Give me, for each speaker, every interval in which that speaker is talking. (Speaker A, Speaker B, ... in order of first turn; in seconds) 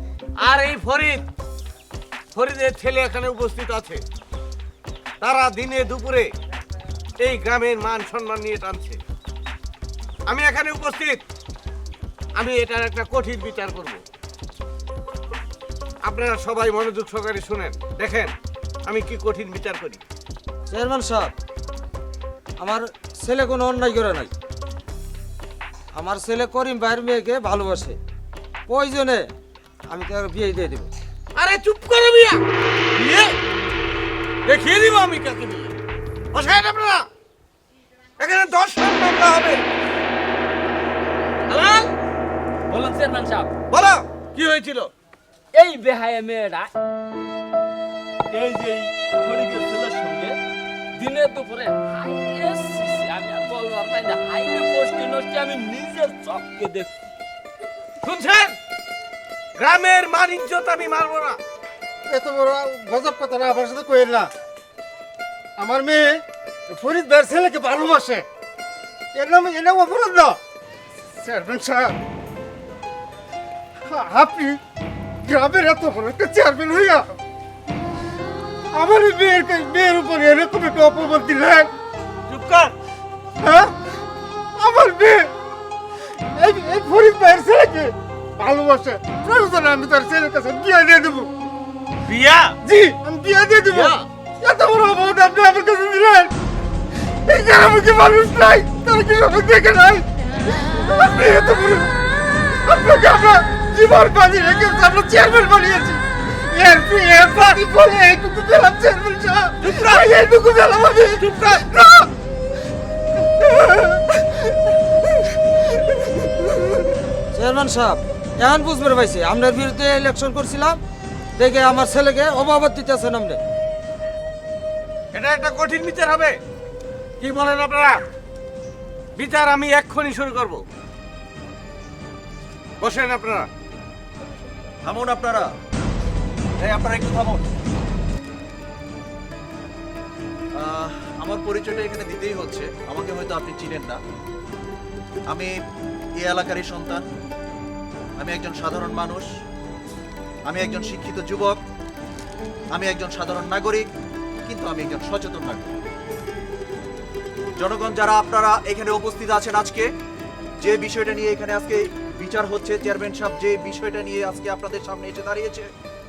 Speaker A: 0.4-1.2, 2.3-4.0, 5.2-6.3, 7.2-9.0, 10.3-11.2, 12.4-14.0, 16.0-18.3, 18.9-20.0, 31.4-32.4, 33.0-33.4, 34.5-35.8, 36.3-37.1, 38.2-39.6, 41.5-41.9, 43.7-44.9, 58.0-58.6, 59.6-61.4, 82.3-82.7, 92.0-92.5, 109.6-112.1, 125.1-126.4, 127.2-128.0, 129.2-130.6, 132.8-133.5
Speaker B: 20.7-21.3, 22.6-24.3, 25.9-28.0, 28.7-29.3, 29.9-30.9, 117.3-120.8, 121.4-123.4
Speaker C: 42.7-43.5, 45.5-46.7, 48.3-50.4, 51.0-56.9
Speaker D: 62.1-64.3, 65.6-68.2, 69.2-70.4, 71.2-72.0, 73.9-74.6, 75.2-77.1, 78.7-81.7, 83.4-83.7, 84.6-85.3, 86.4-91.3, 92.7-96.3, 97.2-100.0, 100.7-101.9, 102.6-110.3, 110.9-111.2, 113.4-114.2
Speaker E: 134.8-135.5, 136.6-137.5, 140.6-144.0, 145.3-145.5, 146.2-147.0, 148.2-149.3, 150.5-151.6, 152.7-153.9, 154.5-155.7, 157.6-159.9, 160.6-165.7